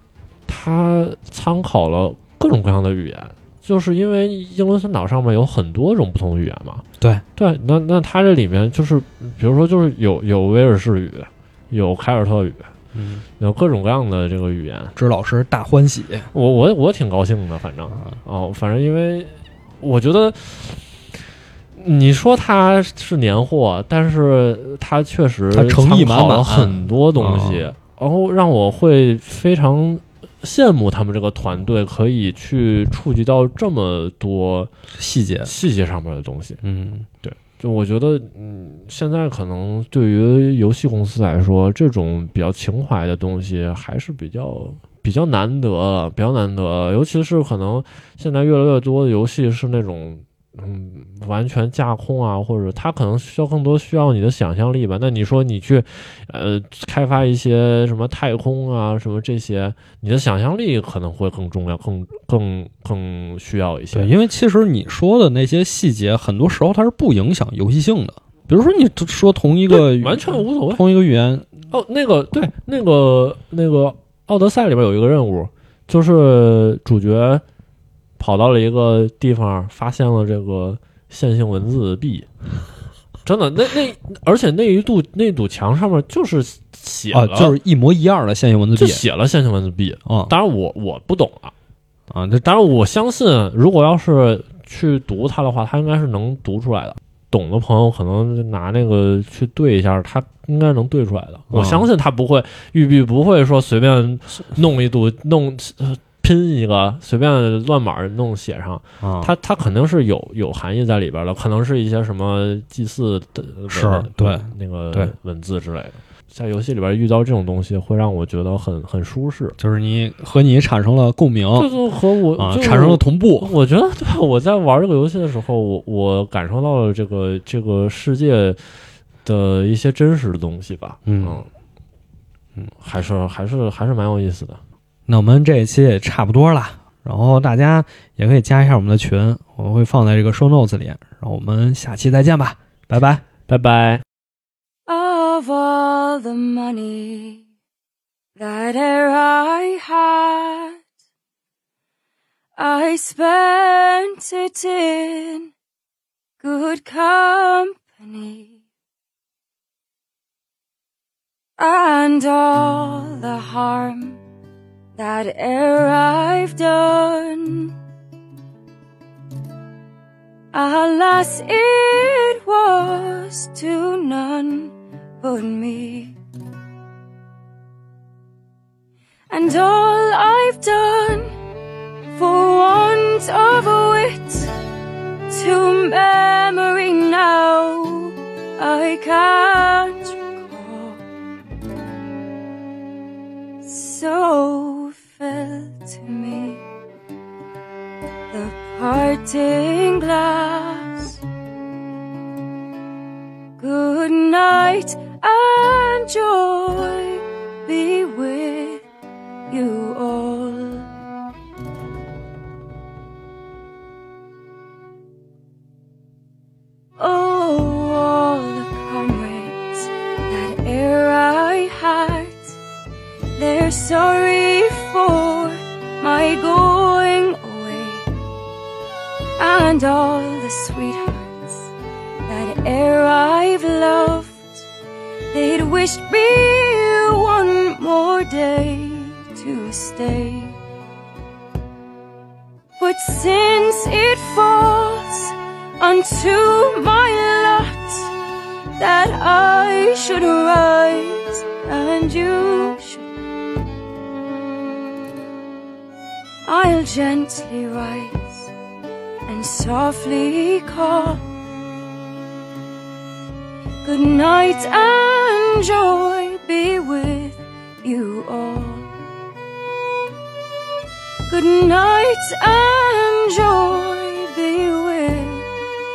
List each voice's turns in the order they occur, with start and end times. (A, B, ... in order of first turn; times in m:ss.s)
0:00.5-0:06.8 A
0:07.4-0:12.7 A
0:13.0-0:13.2 B
0:13.4-0:15.0 A
0:15.0-0:16.3 B
0:16.3-0:21.0 A
0:21.8-0:34.7 A
0:25.5-0:27.7 B
0:35.0-0:35.5 B
0:35.4-0:36.6 A
0:36.6-0:37.1 B
0:37.2-1:04.1 A
1:03.9-1:11.5 B
1:09.7-1:10.8 A
1:11.7-1:17.4 A
1:18.2-1:22.3 A
1:23.3-1:27.6 A
1:27.1-1:29.0 B
1:28.8-1:31.5 A
1:30.1-1:30.3 B
1:32.1-1:32.4 B
1:32.4-1:59.6 A
1:41.5-1:41.9 B
1:49.0-1:49.3 B
1:53.7-1:55.1 B
1:59.6-2:01.7 B
2:01.6-2:08.6 A
2:02.4-2:03.5 B
2:09.2-2:11.5 A
2:11.1-2:11.4 B
2:12.8-2:14.6 A
2:15.1-2:23.2 B
2:23.5-2:24.0 A
2:24.9-2:27.4 C
2:28.4-2:30.8 C
2:32.6-2:35.5 C
2:36.4-2:38.6 C
2:41.6-2:44.2 C
2:45.0-2:47.8 C
2:50.5-2:56.2 C
2:59.3-3:01.3 C
3:02.1-3:04.5 C
3:05.3-3:11.0 C
3:13.6-3:16.6 C
3:18.3-3:21.2 C
3:23.6-3:28.8 C
3:29.5-3:30.9 C
3:37.0-3:42.6 C
3:43.4-3:48.1 C
3:49.4-3:51.7 C
3:52.3-3:54.7 C
3:55.3-4:00.6 C
4:02.8-4:08.1 C
4:08.8-4:13.1 C
4:16.4-4:18.5 C
4:19.3-4:21.2 C
4:23.8-4:28.9 C
4:31.3-4:35.5 C